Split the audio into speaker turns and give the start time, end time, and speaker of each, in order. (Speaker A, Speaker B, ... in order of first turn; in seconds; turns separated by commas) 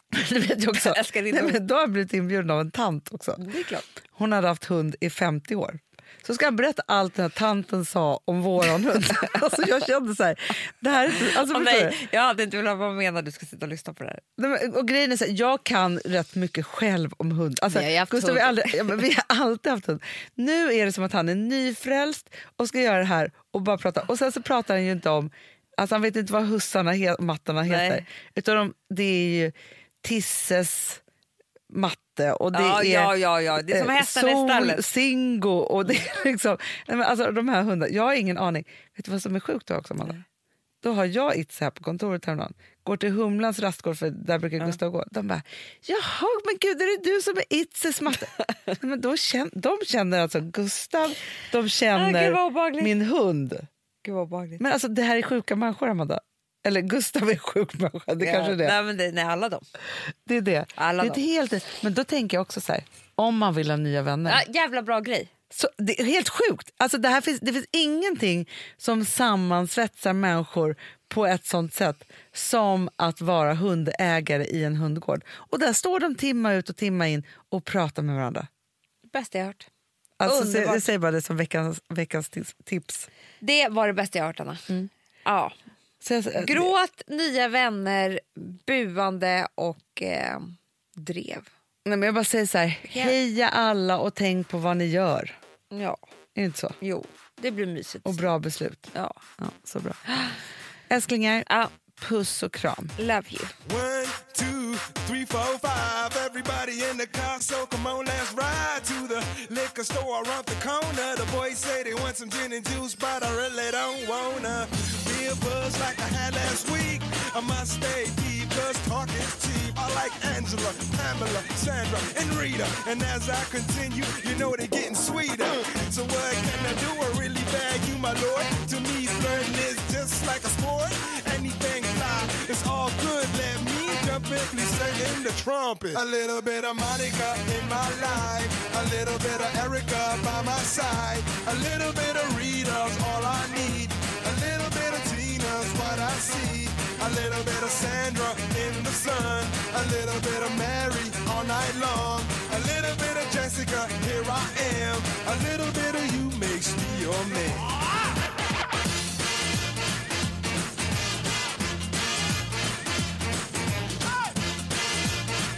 Speaker A: 0.1-3.4, Speaker B: 0.7-1.6, Speaker B: 3.4-3.9, Speaker A: 4.2-11.9, Speaker B: 11.2-14.2, Speaker A: 14.4-31.0, Speaker B: 17.7-19.0, Speaker B: 27.6-28.1, Speaker A: 31.7-40.2, Speaker B: 32.5-34.9, Speaker A: 40.8-53.7, Speaker B: 52.0-52.9, Speaker B: 54.0-54.6, Speaker A: 54.6-58.8, Speaker B: 58.2-59.6, Speaker A: 60.3-64.4, Speaker B: 60.8-61.2, Speaker B: 64.3-65.3, Speaker A: 65.5-78.5, Speaker B: 79.1-79.7, Speaker A: 80.2-83.1, Speaker B: 80.2-80.9, Speaker B: 83.4-84.7, Speaker B: 85.2-85.6, Speaker A: 86.0-86.7, Speaker B: 86.3-91.5, Speaker A: 91.8-95.3, Speaker B: 92.8-93.2, Speaker B: 95.7-96.0, Speaker A: 96.3-96.8, Speaker B: 96.8-98.3, Speaker A: 98.0-100.0, Speaker B: 98.9-99.2, Speaker B: 100.1-100.4, Speaker A: 100.9-102.9, Speaker B: 103.0-103.5, Speaker C: 103.6-157.7